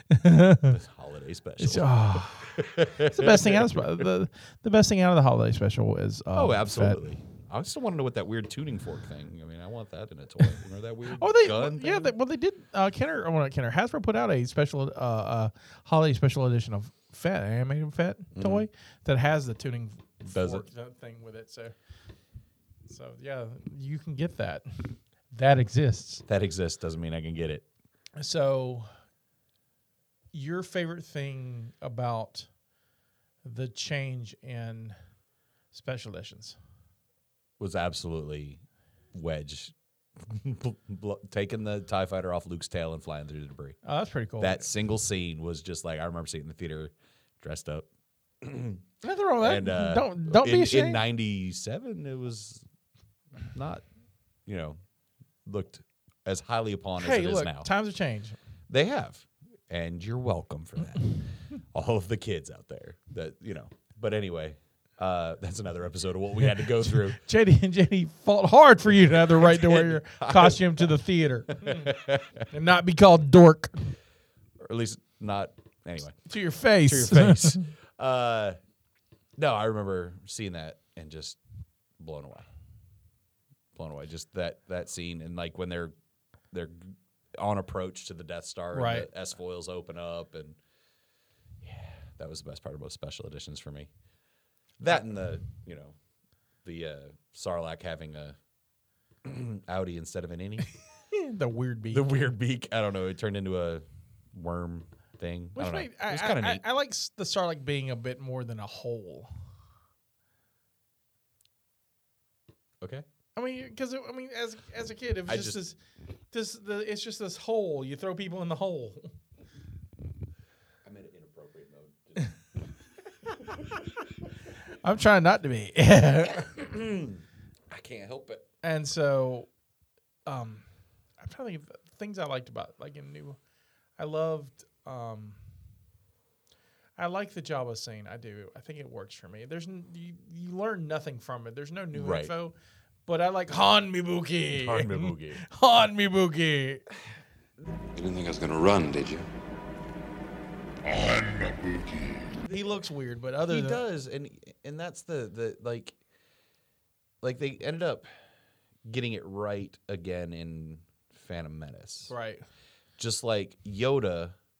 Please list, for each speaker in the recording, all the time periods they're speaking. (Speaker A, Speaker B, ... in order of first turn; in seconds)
Speaker A: 0.1-0.8, 1.6-7.0, 11.2-21.8, 22.9-26.2, 28.2-28.9, 30.3-32.5, 33.4-35.0, 35.7-36.6, 43.8-44.7, 49.0-51.0, 57.0-58.4, 66.8-74.0, 76.2-77.6, 88.7-89.1, 101.1-102.1, 105.5-109.3, 113.3-115.8, 116.3-119.1, 124.8-126.5, 128.6-129.5, 130.2-130.7, 131.2-133.4, 134.0-135.4, 137.0-146.9, 152.4-153.8, 162.1-162.4
Speaker B: 0.6-3.8, 6.3-12.1, 18.3-18.7, 20.2-20.6, 26.2-27.6, 37.6-38.6, 39.1-43.8, 44.4-47.9, 48.4-48.9, 49.4-52.6, 53.5-53.8, 54.5-54.8, 55.4-57.7, 58.7-67.2, 69.0-70.9, 71.5-72.4, 74.6-78.6, 79.3-81.4, 82.0-82.5, 83.7-85.9, 86.5-90.6, 91.6-93.9, 94.8-96.0, 96.6-98.4, 99.2-100.7, 101.9-106.6, 115.3-115.6, 120.8-122.4, 126.3-128.4, 141.9-142.3, 144.5-145.4, 153.5-155.9, 157.2-158.1, 158.8-162.1, 163.0-164.3
Speaker C: 147.9-149.3, 150.8-152.1